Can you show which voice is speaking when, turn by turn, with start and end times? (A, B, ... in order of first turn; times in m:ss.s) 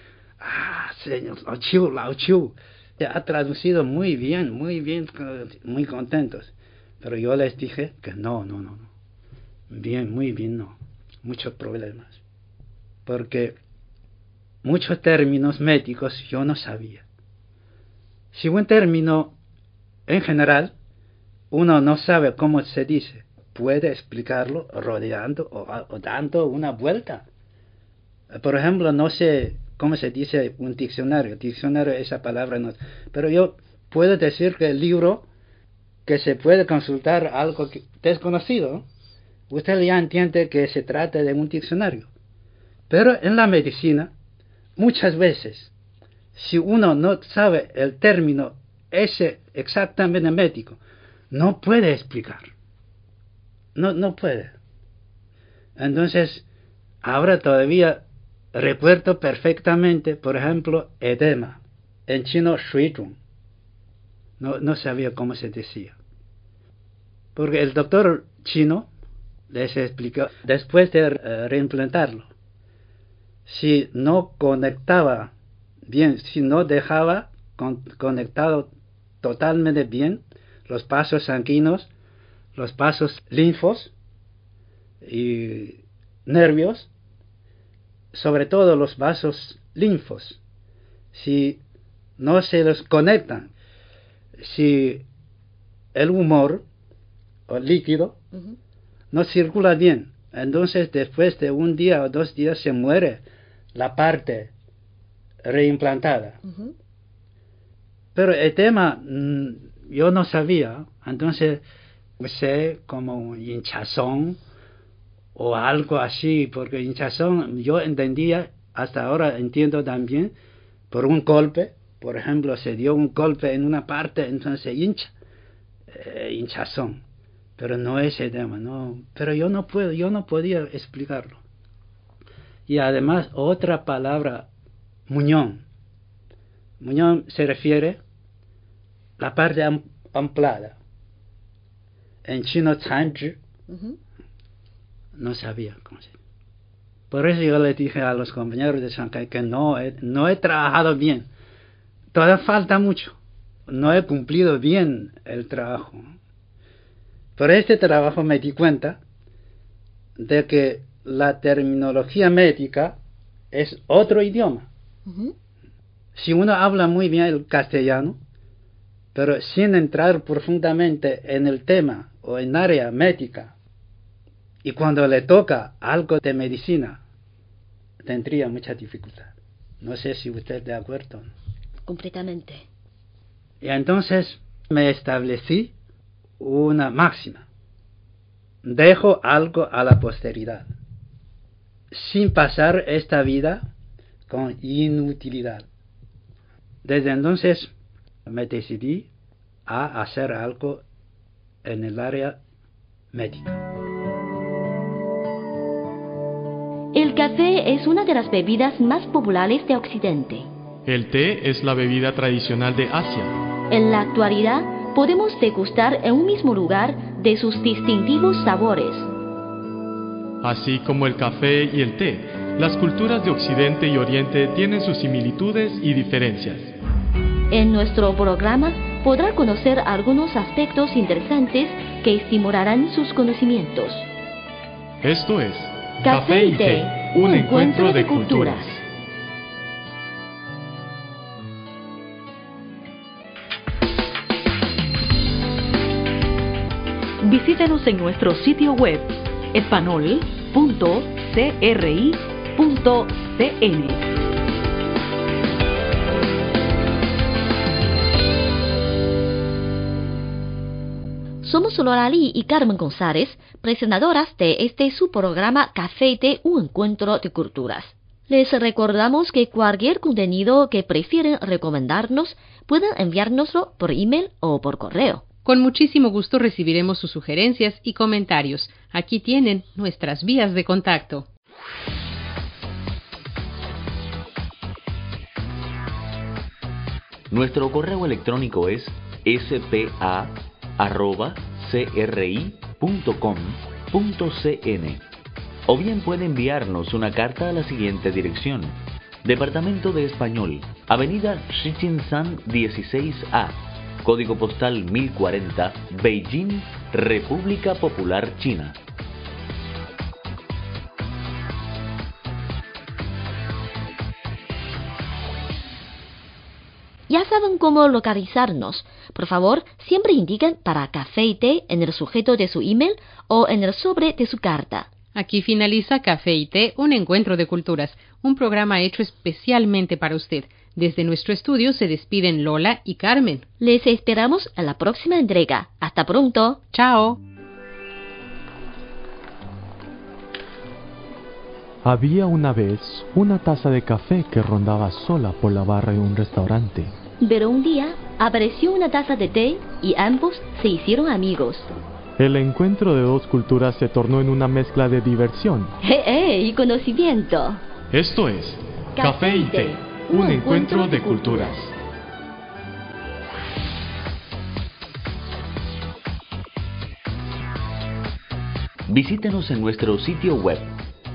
0:00.4-0:08.9 A
0:09.7-0:12.2 A
0:13.0-0:13.6 A
0:14.6-0:17.0 A
0:18.3-0:19.4 A
0:20.1-0:20.7 A
0:21.5-0:27.2 A
0:28.3-0:35.3 A
0:36.0-0:38.8 A
0:39.5-0:42.1 A
0:42.9-0:44.1 A
0:44.8-0:45.7 A
0:46.3-0:50.8 A
0:51.3-0:52.5 A
0:53.8-0:54.6 A
0:55.8-0:56.4 A
0:57.0-1:03.2 A
1:04.4-1:06.0 A
1:07.4-1:08.9 A
1:09.5-1:12.3 A
1:13.4-1:15.3 A
1:15.9-1:18.7 A
1:19.2-1:21.9 A
1:22.6-1:23.9 A
1:25.0-1:26.9 A
1:28.1-1:30.4 A
1:31.1-1:31.6 A
1:32.2-1:33.5 A
1:34.4-1:35.0 A
1:35.9-1:36.6 A
1:37.5-1:38.2 A
1:39.1-1:44.5 A
1:45.4-1:46.4 A
1:48.1-1:51.6 A
1:52.2-1:54.4 A
1:55.4-2:00.3 A
2:00.9-2:05.1 A
2:05.9-2:07.0 A
2:07.6-2:11.4 A
2:12.7-2:14.5 A
2:15.1-2:15.6 A
2:16.8-2:18.0 A
2:19.2-2:20.8 A
2:22.2-2:23.4 A
2:25.1-2:26.1 A
2:27.1-2:31.3 A
2:32.1-2:33.2 A
2:33.7-2:36.1 A
2:37.4-2:39.0 A
2:40.2-2:43.0 A
2:43.5-2:44.7 A
2:46.1-2:48.2 A
2:49.1-2:53.5 A
2:54.6-2:57.0 A
2:58.0-3:01.3 A
3:01.8-3:02.6 B
3:03.6-3:05.7 A
3:06.4-3:07.4 A
3:08.6-3:10.7 A
3:11.9-3:13.6 A
3:14.3-3:15.6 A
3:16.8-3:17.7 A
3:18.2-3:19.1 A
3:19.7-3:20.8 A
3:21.6-3:22.4 A
3:23.1-3:23.6 A
3:26.9-3:30.5 B
3:30.8-3:33.3 C
3:33.7-3:39.1 B
3:40.4-3:46.7 C
3:47.5-3:54.1 B
3:55.0-3:58.8 C
3:56.0-3:58.7 B
4:07.2-4:14.1 D
4:21.4-4:35.2 B
4:35.4-4:41.3 E
4:47.3-4:55.0 F
4:55.7-5:08.8 F
5:17.1-5:24.9 B
5:25.1-5:33.4 E
5:33.6-5:36.6 B
5:36.7-5:37.2 E
5:41.8-5:46.9 C
5:47.2-5:51.7 B
5:52.2-5:55.7 C
5:55.8-5:57.6 B
5:57.9-6:01.7 C
5:59.0-6:01.4 B
6:08.9-6:10.8 F